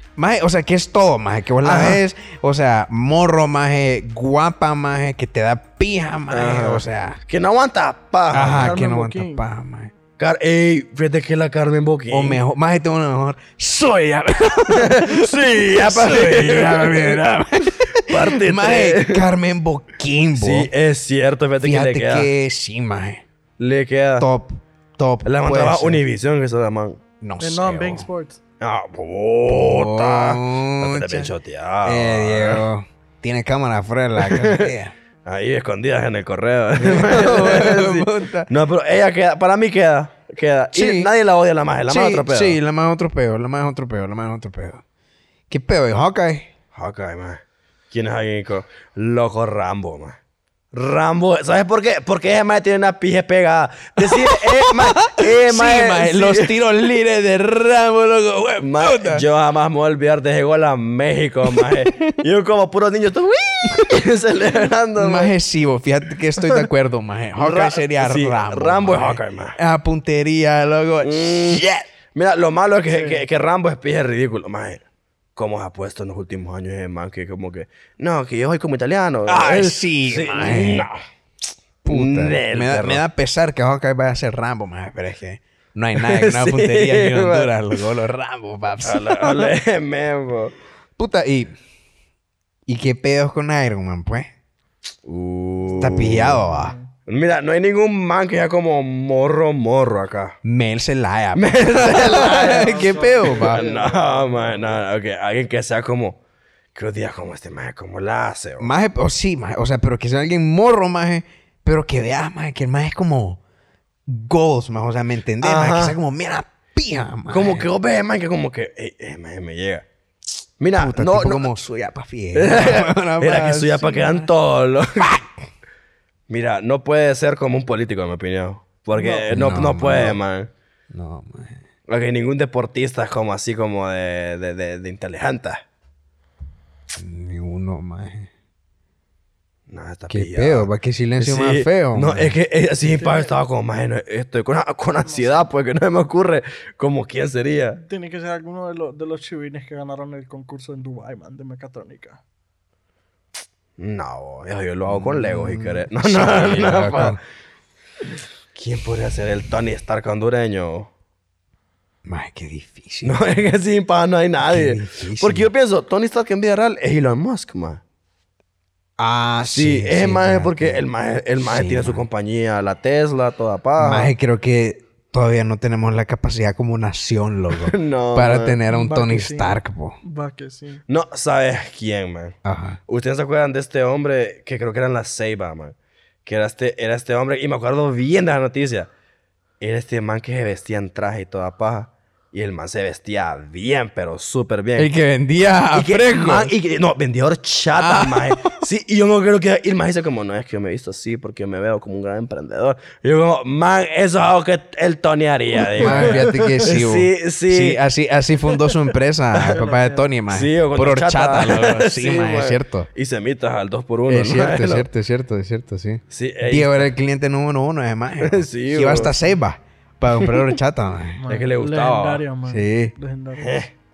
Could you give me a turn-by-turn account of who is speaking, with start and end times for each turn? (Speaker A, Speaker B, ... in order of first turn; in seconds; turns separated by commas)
Speaker A: 0.2-7.2, Speaker B: 1.6-2.0, Speaker B: 6.3-8.8, Speaker A: 8.3-9.9, Speaker C: 8.6-9.4, Speaker B: 10.2-12.4, Speaker A: 12.1-20.7, Speaker B: 14.7-17.2, Speaker B: 18.0-19.2, Speaker B: 20.4-22.3, Speaker A: 21.6-23.2, Speaker B: 23.6-24.3, Speaker A: 24.2-26.0, Speaker B: 25.2-27.0, Speaker A: 27.2-28.1, Speaker C: 27.4-28.4, Speaker B: 28.6-32.6, Speaker A: 29.5-31.3, Speaker A: 31.8-34.9, Speaker B: 34.2-34.7, Speaker B: 35.3-42.6, Speaker A: 36.8-38.5, Speaker A: 40.7-41.1, Speaker A: 41.9-44.8, Speaker A: 45.5-46.5, Speaker B: 46.7-50.2, Speaker B: 50.7-56.5, Speaker A: 54.0-59.2, Speaker B: 58.6-65.3, Speaker A: 61.5-62.0, Speaker A: 65.0-71.8, Speaker B: 67.4-69.6, Speaker B: 71.0-74.8, Speaker C: 72.9-73.2, Speaker B: 75.4-81.0, Speaker A: 79.3-80.9, Speaker A: 81.8-89.5, Speaker B: 81.9-83.0, Speaker B: 86.0-87.6, Speaker B: 88.8-90.5, Speaker A: 91.0-91.5, Speaker A: 92.7-94.3, Speaker B: 95.1-96.5, Speaker A: 95.8-96.7, Speaker C: 96.5-96.9, Speaker B: 97.1-100.4, Speaker A: 100.4-103.7, Speaker B: 101.3-106.2, Speaker C: 102.0-104.8, Speaker B: 106.8-108.7, Speaker A: 108.6-113.4, Speaker A: 114.1-117.7, Speaker B: 115.4-116.0, Speaker B: 117.3-119.8, Speaker B: 120.6-121.5, Speaker A: 120.8-124.1, Speaker B: 122.3-125.1, Speaker A: 125.0-125.3, Speaker B: 126.3-130.5, Speaker C: 128.9-129.4, Speaker A: 129.3-130.2, Speaker A: 130.9-131.6, Speaker B: 131.9-135.6, Speaker A: 137.0-138.3, Speaker B: 139.7-140.7, Speaker A: 140.1-142.4, Speaker B: 141.2-147.8, Speaker C: 142.9-143.3, Speaker C: 145.1-145.4, Speaker C: 147.8-152.2, Speaker B: 153.8-157.2, Speaker A: 154.9-157.2, Speaker B: 158.6-160.9, Speaker A: 162.1-163.4, Speaker B: 163.0-167.8, Speaker A: 164.4-165.5, Speaker A: 169.0-170.8, Speaker B: 169.5-174.1, Speaker A: 171.4-172.1, Speaker A: 173.8-180.0, Speaker B: 177.6-178.6, Speaker C: 178.7-180.8, Speaker B: 180.9-182.4, Speaker A: 182.4-182.8, Speaker B: 182.9-185.8, Speaker B: 186.3-188.9, Speaker B: 189.6-194.9, Speaker A: 194.8-196.5, Speaker B: 195.7-207.8, Speaker A: 197.7-198.6, Speaker C: 205.6-206.7, Speaker A: 205.8-212.9, Speaker B: 209.3-209.6, Speaker C: 209.5-210.1, Speaker B: 210.3-214.9, Speaker A: 214.1-221.2, Speaker B: 216.1-216.9, Speaker B: 218.2-219.2, Speaker C: 221.2-223.6, Speaker B: 221.3-222.2, Speaker A: 222.5-222.9, Speaker B: 223.4-223.7